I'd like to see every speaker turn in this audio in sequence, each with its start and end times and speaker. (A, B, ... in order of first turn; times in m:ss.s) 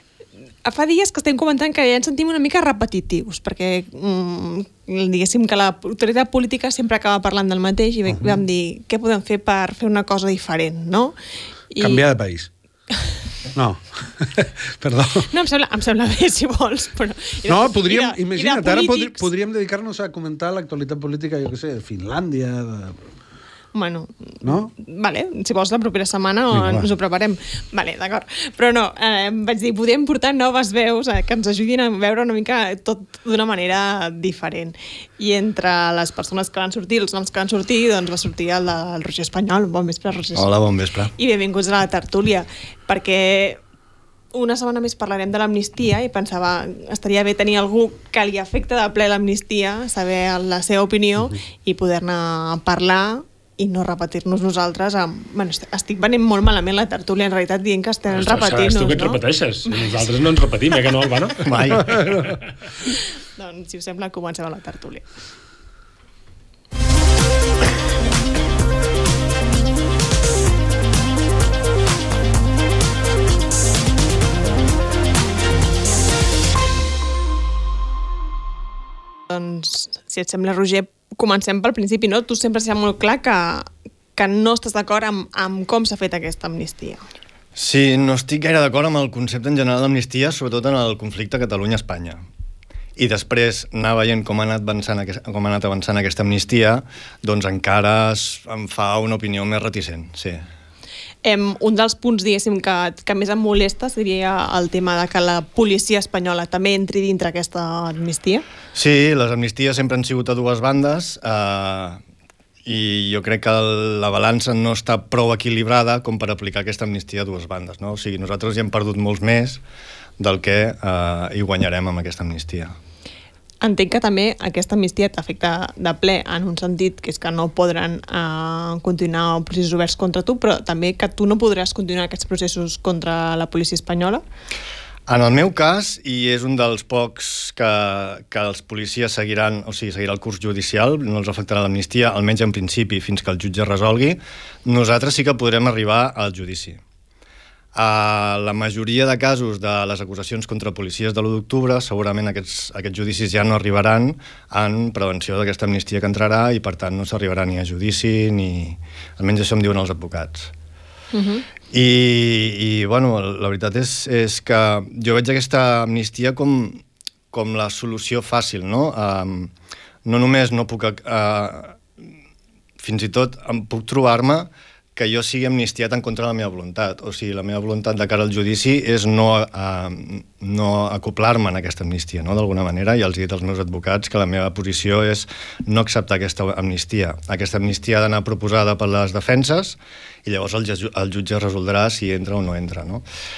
0:00.6-0:11.2 A
0:08.1-0:08.4 B
0:11.7-0:12.0 A
0:11.8-0:12.5 B
0:13.6-0:15.3 B
0:15.3-0:19.3 A
0:17.5-0:23.0 B
0:23.7-0:40.6 A
0:24.4-0:24.7 B
0:40.4-0:41.1 C
0:41.2-0:43.6 A
0:44.3-0:59.9 A
0:58.1-1:02.4 D
1:01.4-1:02.1 C
1:03.4-1:05.0 A
1:19.3-1:27.0 A
1:27.6-1:32.2 C
1:33.0-1:40.4 C
1:41.2-1:48.4 A
1:48.7-1:52.0 C
1:52.6-1:59.6 C
2:00.2-2:02.8 C
2:03.6-2:14.2 A
2:15.1-2:26.8 C
2:27.7-2:40.5 C
2:41.1-2:41.4 A
2:41.7-2:49.5 C
2:50.0-2:51.8 C
2:52.8-3:13.0 C